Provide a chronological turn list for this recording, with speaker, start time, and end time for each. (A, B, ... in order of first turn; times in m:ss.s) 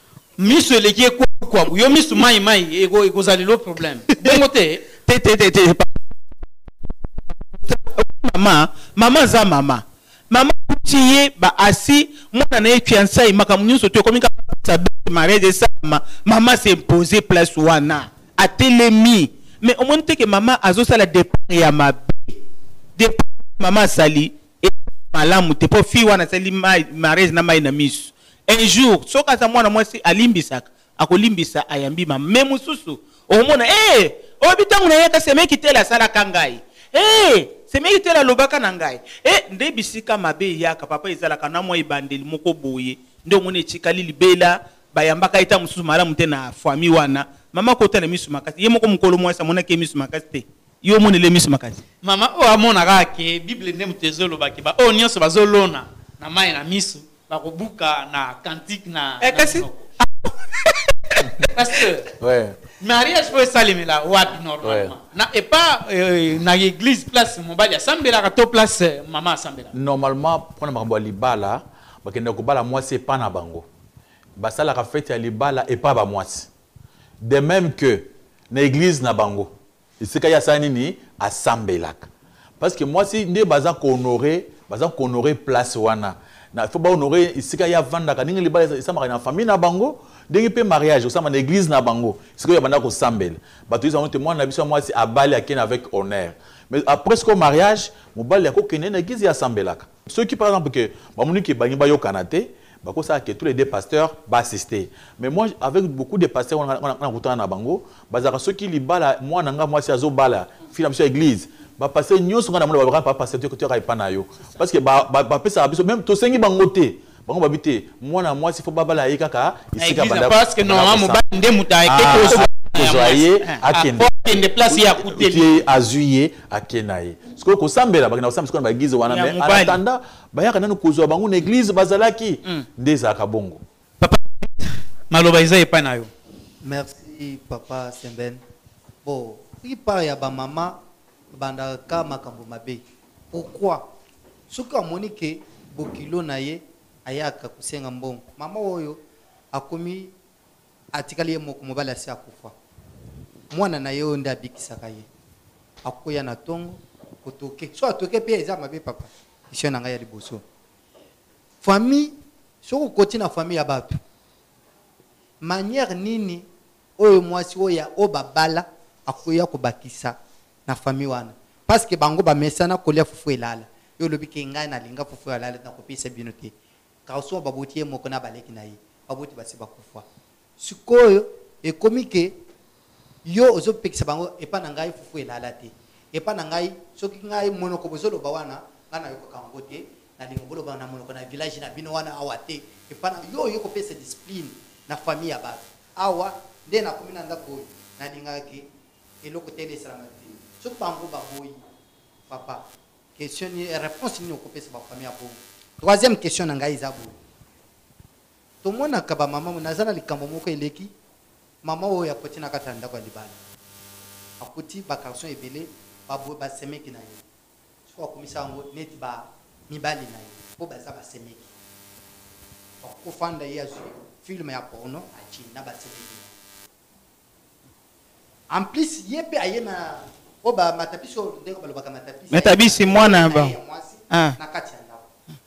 0:00.4-0:04.8 A
0:05.0-0:06.2 B
0:07.6-0:22.4 B
0:23.0-0:51.8 B
0:52.0-0:59.8 A
0:59.2-1:00.8 B
1:01.4-1:02.1 A
1:02.2-1:02.6 C
1:02.8-1:09.7 A
1:04.6-1:04.9 C
1:09.7-1:13.6 C
1:14.4-1:16.5 C
1:17.2-1:22.1 C
1:22.6-2:01.2 C
1:59.8-2:05.5 A
2:01.8-2:13.6 C
2:02.0-2:02.4 B
2:09.1-2:09.8 B
2:14.0-2:16.1 A
2:16.6-2:18.4 D
2:19.0-2:20.8 D
2:21.3-2:23.8 D
2:24.5-2:29.0 D
2:29.5-2:30.1 D
2:30.9-2:32.5 D
2:33.5-2:35.0 D
2:35.8-2:40.4 D
2:41.6-2:44.0 D
2:45.4-2:46.4 D
2:47.0-2:50.2 D
2:50.7-2:56.5 D
2:57.1-3:00.0 D
3:00.6-3:02.4 D
3:03.2-3:18.7 D
3:19.2-3:21.6 D
3:22.3-3:22.6 D
3:23.2-3:27.1 D
3:28.6-3:30.9 D
3:31.6-3:33.4 D
3:34.4-3:37.2 D
3:37.9-3:41.5 D
3:42.8-3:46.3 D
3:48.5-3:55.1 D
3:52.3-3:53.6 B
3:54.1-3:54.4 B